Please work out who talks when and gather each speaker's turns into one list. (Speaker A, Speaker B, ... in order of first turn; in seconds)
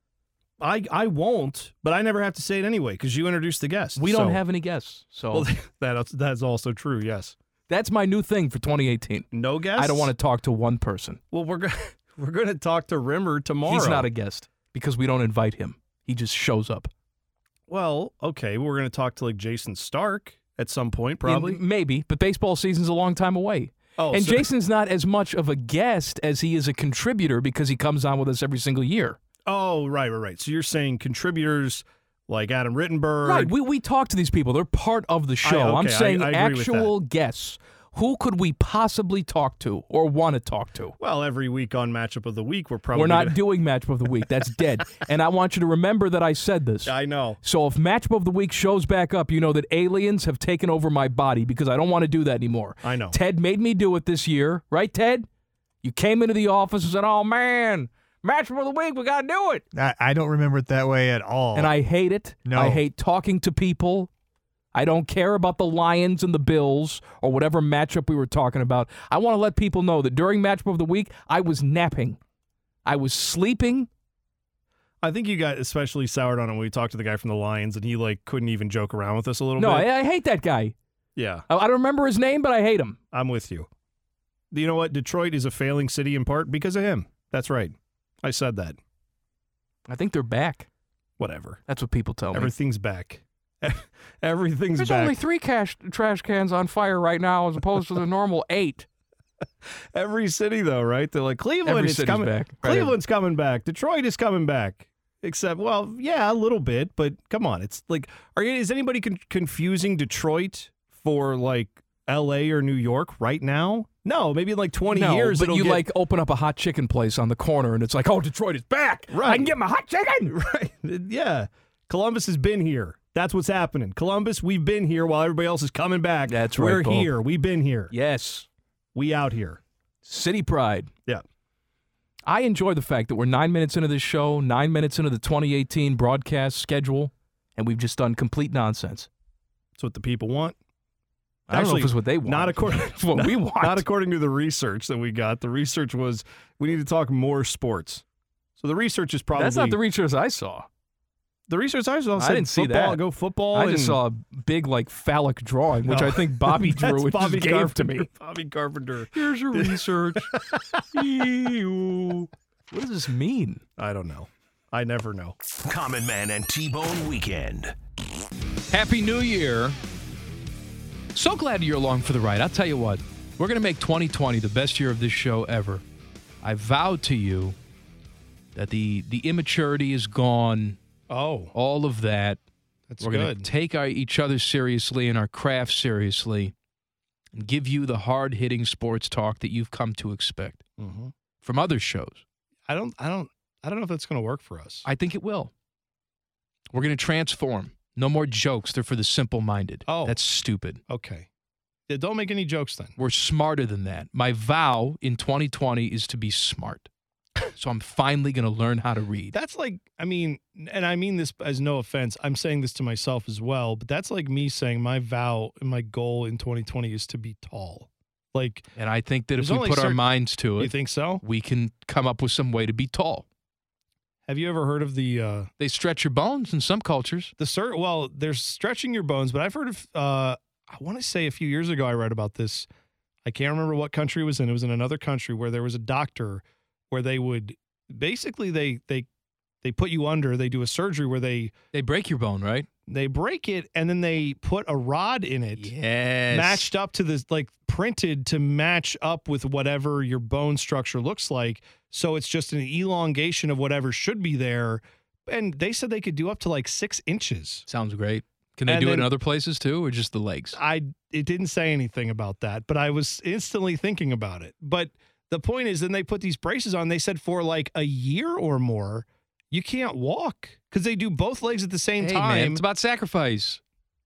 Speaker A: 0.6-4.4, 5.3-7.3, 9.3-10.1, 11.3-14.1, 17.7-21.6, 24.0-24.5, 29.5-33.5, 35.4-36.9, 41.0-43.4, 46.9-47.4, 52.8-53.2, 61.4-61.7, 75.0-79.9, 81.2-81.5, 83.1-83.7, 84.5-88.8, 91.2-91.6, 92.3-95.2, 99.9-115.8, 119.1-119.5, 120.3-127.9, 128.9-129.6, 139.8-140.6, 141.5-148.0, 148.6-149.8, 151.5-154.0, 155.9-160.8, 163.8-165.4, 181.1-181.5, 182.9-183.5, 190.8-191.1, 192.7-194.8, 199.9-200.2, 200.9-201.3, 201.9-202.9, 209.3-218.7, 219.4-220.1, 220.6-221.2, 224.3-225.5, 227.4-232.7, 233.2-239.1, 239.6-241.5, 242.9-245.7, 246.3-257.6, 258.7-259.1, 260.5-272.6
Speaker B: 4.0-5.5, 7.7-11.2, 13.7-16.9, 21.2-29.2, 33.2-41.0, 42.9-55.3, 55.8-59.6, 61.5-64.1, 64.7-72.2, 72.8-73.9, 79.6-80.8, 81.5-83.0, 89.9-90.7, 91.7-92.5, 94.8-98.9, 101.7-103.0, 114.9-120.3, 126.3-127.1, 127.9-128.5, 130.1-130.9, 132.3-139.1, 141.5-143.8, 149.4-150.7, 152.2-153.0, 153.5-158.1, 159.1-160.3, 160.9-163.6, 168.7-169.8, 171.1-175.8, 176.4-177.6, 178.6-180.8, 181.5-182.4, 183.0-186.5, 187.3-190.6, 191.4-192.2, 194.8-195.5, 196.7-200.8, 203.0-206.9, 207.5-209.3, 218.8-223.2, 225.6-227.3, 241.7-242.7, 245.6-246.7, 257.7-260.6, 272.0-273.6
Speaker C: 59.7-61.5, 62.5-62.8
Speaker D: 165.6-167.8